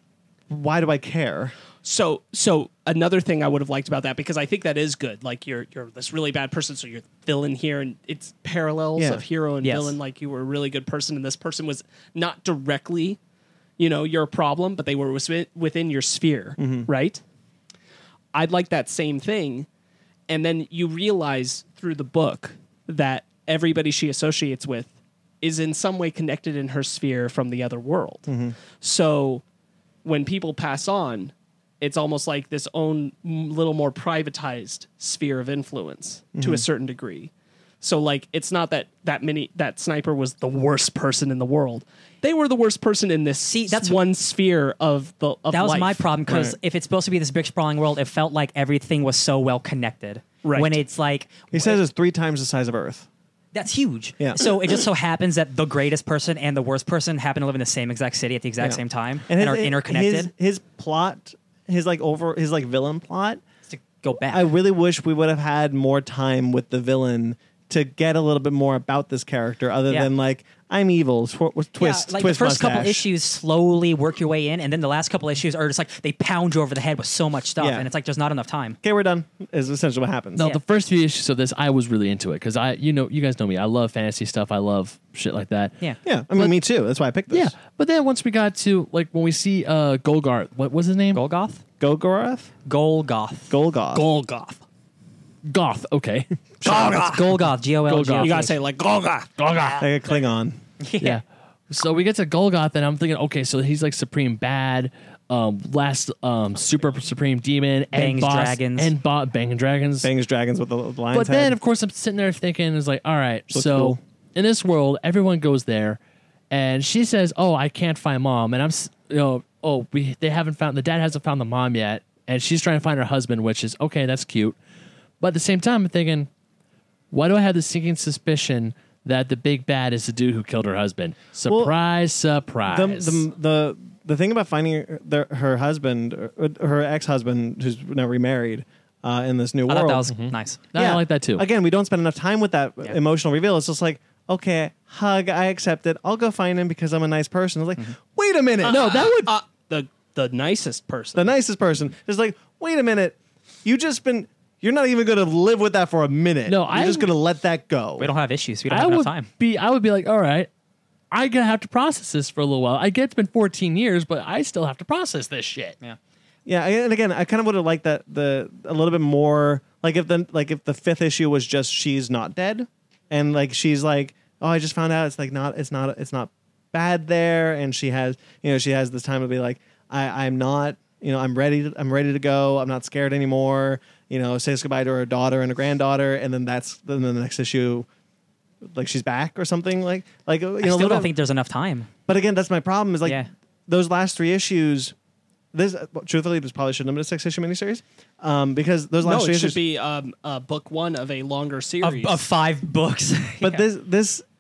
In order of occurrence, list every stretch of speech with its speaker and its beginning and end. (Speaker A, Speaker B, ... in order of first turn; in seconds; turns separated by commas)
Speaker A: 0.5-1.5, Speaker B: 1.8-13.2, Speaker A: 8.9-9.2, Speaker C: 9.6-10.0, Speaker B: 13.8-17.2, Speaker A: 16.6-16.9, Speaker B: 18.3-19.7, Speaker B: 20.3-28.3, Speaker A: 28.3-28.6, Speaker B: 28.8-29.4, Speaker B: 30.0-46.1, Speaker A: 36.4-36.6, Speaker C: 43.5-44.0, Speaker C: 45.5-51.8, Speaker A: 46.3-46.5, Speaker B: 50.4-50.8, Speaker A: 51.5-53.1, Speaker C: 53.5-60.3, Speaker A: 58.6-63.4, Speaker C: 63.7-64.5, Speaker A: 64.3-73.1, Speaker C: 71.8-78.8, Speaker A: 77.6-77.9, Speaker A: 78.8-80.4, Speaker D: 80.3-85.8, Speaker A: 86.0-87.5, Speaker D: 87.3-91.2, Speaker C: 91.1-91.6, Speaker A: 91.8-92.5, Speaker C: 92.6-93.5, Speaker A: 93.5-94.1, Speaker D: 94.0-94.3, Speaker B: 94.1-94.6, Speaker D: 95.5-98.5, Speaker A: 96.6-97.0, Speaker C: 96.7-98.6, Speaker B: 96.7-97.2, Speaker B: 98.2-99.3, Speaker D: 99.4-99.9, Speaker A: 99.8-100.6, Speaker C: 100.8-101.2, Speaker D: 101.0-110.1, Speaker C: 107.9-108.9, Speaker A: 110.0-111.5, Speaker D: 111.1-116.0, Speaker A: 113.5-114.0, Speaker D: 116.5-124.5, Speaker D: 125.2-126.3, Speaker D: 127.1-133.2, Speaker A: 131.5-131.8, Speaker A: 132.7-140.1, Speaker C: 139.7-140.6, Speaker D: 140.1-141.4, Speaker A: 140.7-149.3, Speaker B: 148.6-151.3, Speaker D: 148.7-149.3, Speaker A: 151.1-158.1, Speaker D: 156.5-157.1, Speaker C: 158.0-159.3, Speaker D: 158.7-160.5, Speaker D: 161.1-165.8, Speaker A: 166.5-187.9, Speaker A: 188.6-191.1, Speaker C: 190.6-191.9, Speaker A: 192.1-194.9, Speaker A: 195.5-199.6, Speaker B: 199.0-202.2, Speaker C: 201.8-203.6, Speaker A: 203.4-204.2